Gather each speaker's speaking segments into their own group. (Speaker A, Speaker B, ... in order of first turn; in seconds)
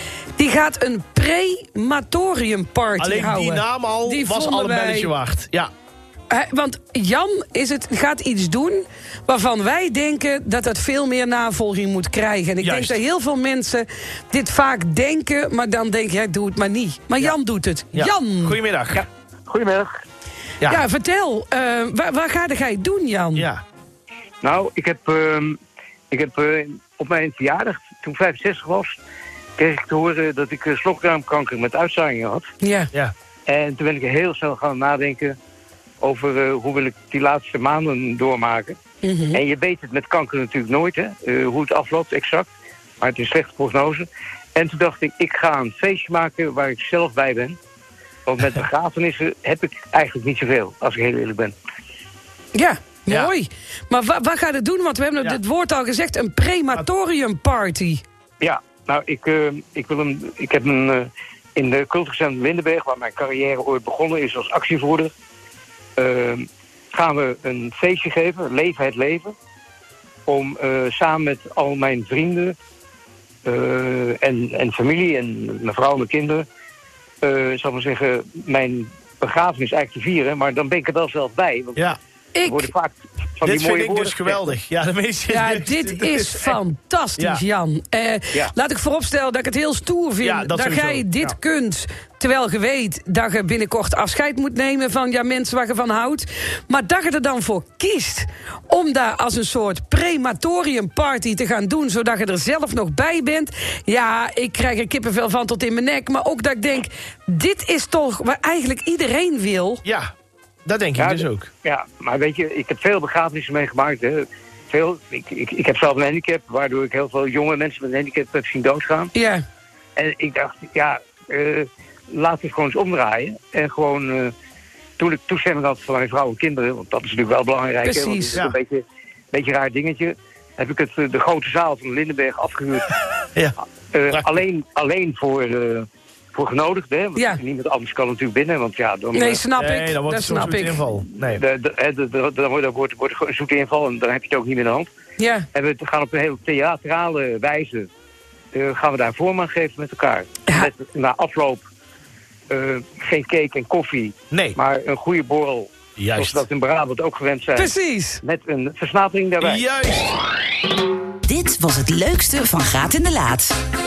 Speaker A: 0.4-5.1, 6.3-18.6, 20.6-23.5, 32.6-32.9, 39.0-39.4, 52.5-58.0, 82.3-82.7, 85.3-109.8, 119.1-119.4, 127.8-128.4, 137.1-137.4, 139.1-140.8, 145.2-145.5, 157.5-158.2
Speaker B: 3.0-5.7, 12.6-13.0, 17.9-19.0, 23.4-23.6, 83.4-86.6, 87.2-87.4, 90.2-91.4, 110.6-111.5, 139.6-141.4, 154.3-154.6, 156.0-156.4, 159.4-160.1
Speaker C: 18.9-19.9, 24.4-25.6, 26.1-29.0, 29.6-32.5, 33.5-35.4, 36.0-38.8, 39.3-42.5, 43.0-47.6, 48.2-51.5, 58.4-65.1, 66.0-69.3, 70.3-72.6, 73.5-76.5, 77.2-81.8, 82.5-84.5, 111.0-119.1, 120.0-124.3, 125.0-132.9, 133.9-139.4, 141.1-144.9, 145.5-147.9, 148.5-151.6, 152.5-159.6
Speaker D: 161.3-163.5